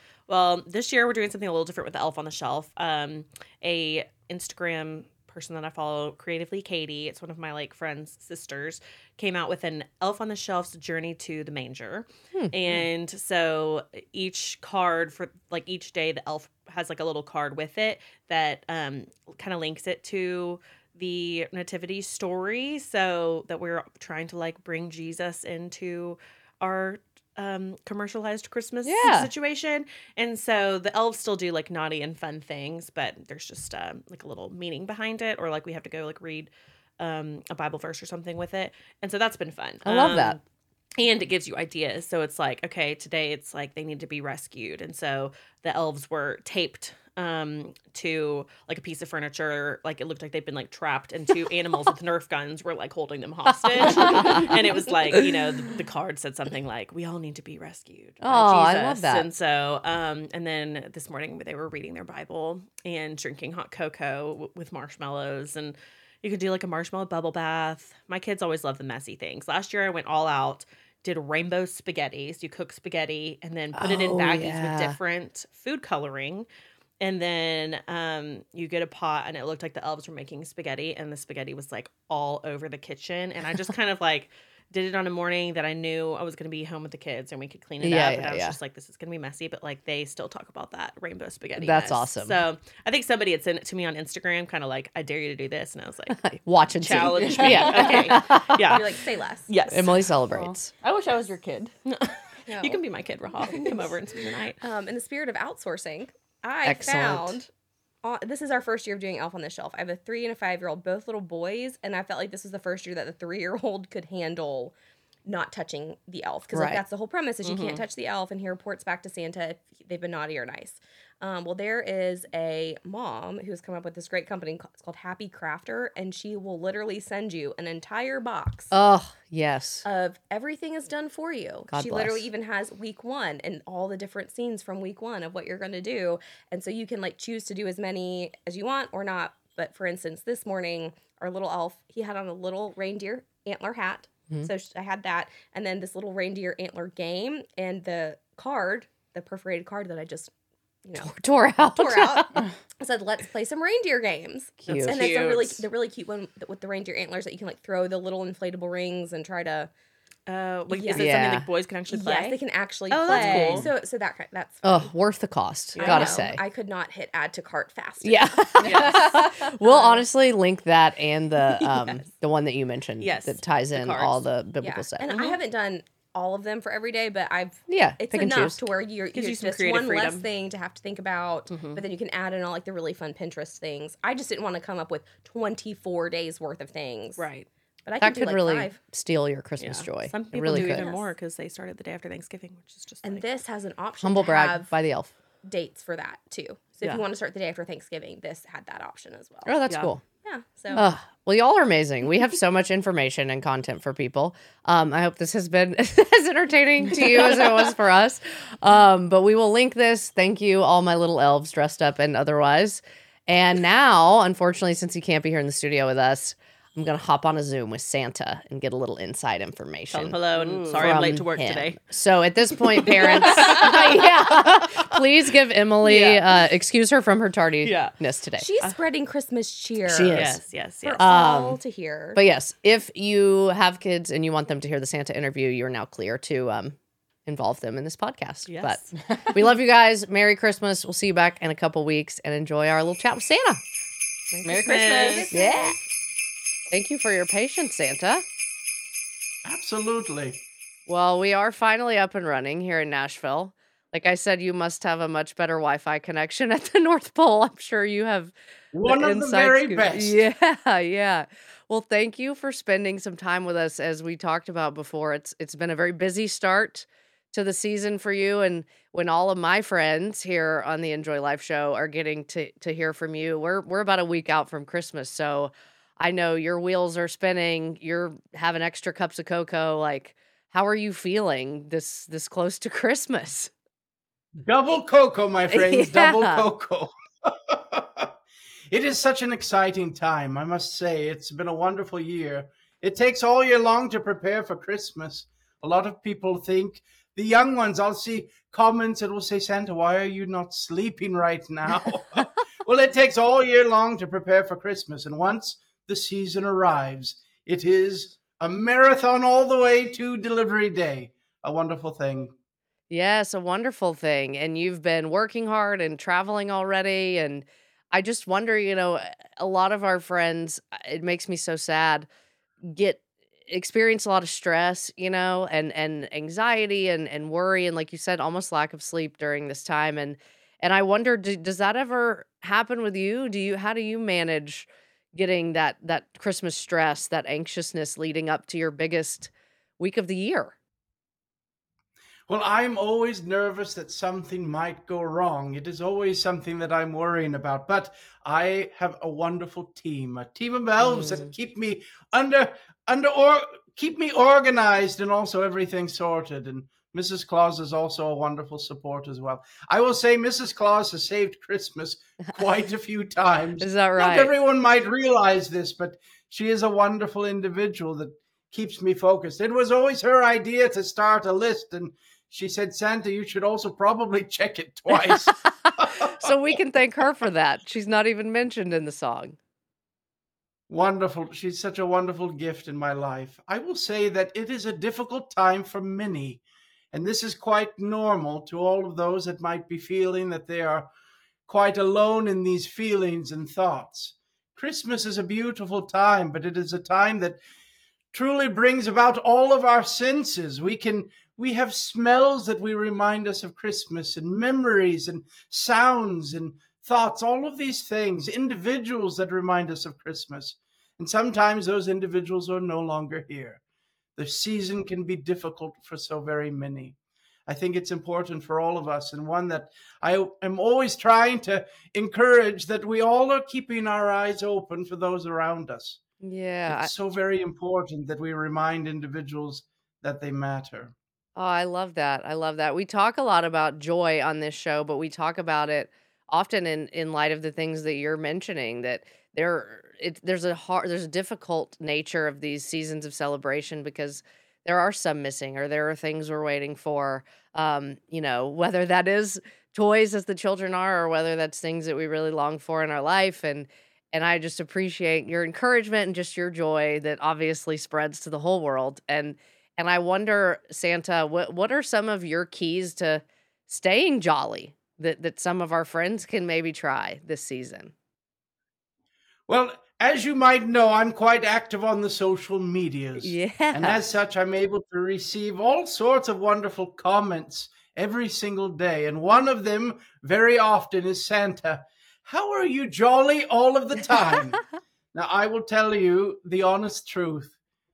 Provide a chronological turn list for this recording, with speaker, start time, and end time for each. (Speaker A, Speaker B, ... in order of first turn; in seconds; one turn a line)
Speaker A: 0.3-40.4
Speaker B: 28.8-29.3
Speaker B: 39.8-40.4
Speaker A: 41.0-76.5
Speaker B: 54.0-54.5
Speaker B: 58.2-59.3
Speaker B: 73.7-75.0
Speaker A: 77.0-96.2
Speaker B: 87.8-88.6
Speaker B: 91.6-92.4
Speaker B: 96.1-98.8
Speaker A: 96.8-100.0
Speaker C: 97.2-98.1
Speaker D: 97.8-99.5
Speaker B: 99.7-100.7
Speaker C: 100.3-101.7
Speaker A: 101.9-104.6
Speaker D: 102.5-102.8
Speaker D: 103.4-103.9
Speaker D: 104.6-107.5
Speaker B: 106.6-107.4
Speaker D: 108.0-128.7
Speaker B: 116.5-116.8
Speaker A: 117.4-117.8
Speaker B: 128.7-129.8
Speaker D: 129.8-150.3
Speaker B: 131.7-132.3
Speaker D: 150.8-151.1
Speaker B: 151.0-152.4
Speaker D: 151.7-159.7
Speaker B: 154.6-155.1
Speaker A: 154.7-155.6
Speaker A: 160.3-163.7
Speaker D: 160.7-161.1
Speaker B: 160.9-161.5
Speaker D: 161.9-164.9
Speaker B: 163.1-163.6
Speaker B: 164.6-166.4
Speaker A: 165.7-166.2
Speaker D: 165.8-170.0
Speaker B: 168.0-175.1
Speaker A: 168.6-169.2
Speaker A: 173.0-174.2
Speaker D: 174.6-187.2
Speaker A: 175.1-175.4
Speaker B: 177.7-178.6
Speaker A: 179.1-180.3
Speaker A: 181.5-181.8
Speaker A: 187.2-187.5
Speaker D: 187.8-188.8
Speaker B: 188.0-190.8
Speaker A: 189.6-193.2
Speaker D: 190.4-191.1
Speaker D: 193.0-194.7
Speaker B: 194.0-195.1
Speaker D: 195.4-199.5
Speaker B: 199.4-200.0
Speaker D: 200.2-200.8
Speaker B: 200.7-220.2
Speaker A: 219.9-221.8
Speaker C: 220.3-221.0
Speaker B: 220.8-228.5
Speaker A: 223.0-224.1
Speaker A: 225.8-226.4
Speaker A: 227.6-227.9
Speaker D: 228.4-230.3
Speaker B: 229.9-230.4
Speaker A: 230.1-231.0
Speaker D: 230.8-232.2
Speaker B: 231.0-231.6
Speaker B: 232.1-243.6
Speaker A: 238.5-238.9
Speaker C: 244.4-245.3
Speaker D: 244.6-245.8
Speaker A: 244.6-245.3
Speaker B: 245.3-245.8
Speaker B: 246.7-248.2
Speaker E: 249.4-250.4
Speaker B: 250.9-283.5
Speaker E: 258.7-260.2
Speaker E: 284.4-288.1
Speaker B: 285.5-286.4
Speaker E: 288.7-312.3
Speaker B: 312.9-322.1
Speaker B: 322.6-340.5
Speaker E: 342.3-376.3
Speaker B: 350.8-351.3
Speaker B: 363.6-364.3
Speaker B: 374.9-379.4
Speaker E: 380.7-390.9
Speaker E: 391.5-397.4
Speaker E: 398.1-413.6
Speaker E: 414.1-416.9
Speaker E: 417.5-426.0
Speaker B: 426.2-426.9
Speaker E: 426.7-430.9
Speaker B: 431.4-467.9
Speaker E: 469.5-484.6
Speaker B: 473.2-474.0
Speaker E: 485.1-487.5